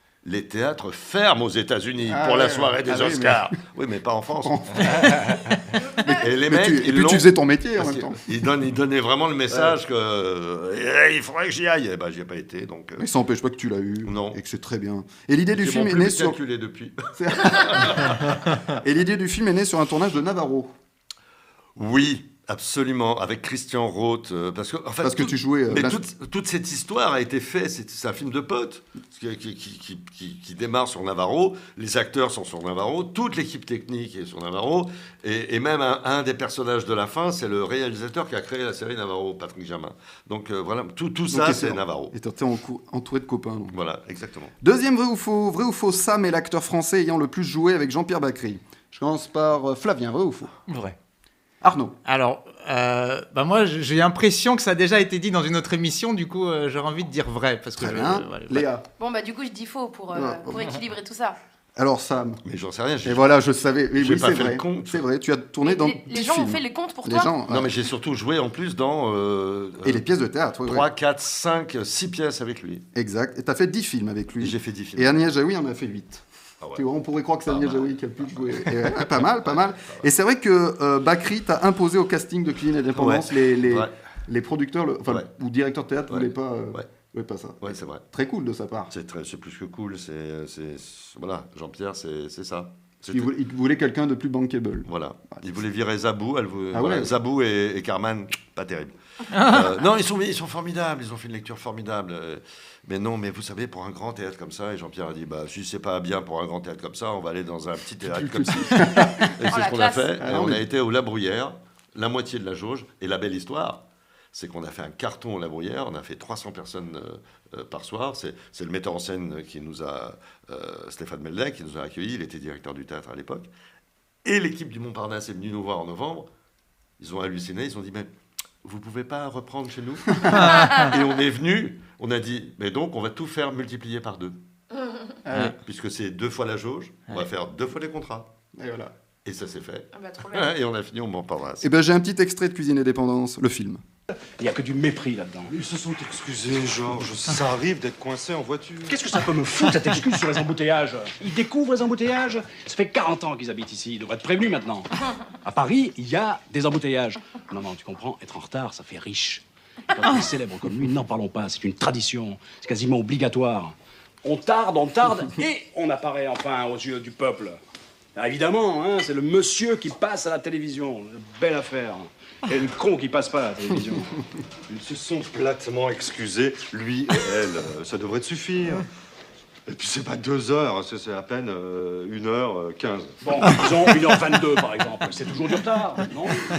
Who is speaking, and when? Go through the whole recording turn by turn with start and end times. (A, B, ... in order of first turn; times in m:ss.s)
0:00.2-0:05.0 A
0:02.0-0:03.5 B
0:04.4-0:05.4 B
0:05.9-0:08.2 B
0:06.2-0:13.0 A
0:09.5-0:09.8 B
0:13.0-0:16.4 B
0:14.0-0:14.4 A
0:15.5-0:18.4 A
0:17.1-0:18.2 B
0:18.8-0:20.7 B
0:21.8-0:42.1 A
0:25.0-0:26.0 B
0:41.3-0:43.8 B
0:43.7-0:44.5 A
0:44.6-0:50.5 B
0:51.6-0:52.0 B
0:52.0-0:58.6 C
0:57.8-0:58.8 B
0:59.0-1:01.4 D
1:00.1-1:00.7 B
1:01.8-1:02.4 B
1:02.4-1:03.3 A
1:03.0-1:07.7 B
1:04.0-1:05.0 A
1:05.6-1:07.3 D
1:07.5-1:10.0 A
1:09.8-1:10.9 B
1:10.6-1:12.8 A
1:12.9-1:16.2 B
1:14.4-1:15.2 A
1:16.8-1:28.9 B
1:17.5-1:20.0 A
1:22.9-1:23.9 A
1:26.1-1:26.9 A
1:27.6-1:28.0 A
1:28.9-1:33.3 A
1:33.1-1:34.9 B
1:34.9-2:03.5 A
1:36.7-1:37.1 B
1:39.3-1:39.7 C
1:48.0-1:49.3 B
1:49.5-1:50.1 D
1:50.2-1:50.6 B
2:04.2-2:06.3 A
2:07.0-2:08.1 A
2:08.6-2:14.4 A
2:10.4-2:10.8 C
2:15.3-2:15.5 B
2:15.3-2:18.3 A
2:18.6-2:18.9 B
2:19.2-2:21.7 A
2:19.9-2:20.5 D
2:21.6-2:23.8 B
2:24.2-2:25.5 E
2:25.5-2:29.0 F
2:28.9-2:34.9 E
2:35.4-2:47.6 E
2:48.2-2:54.1 E
2:54.7-2:58.8 F
2:59.7-3:03.1 F
3:03.2-3:06.4 E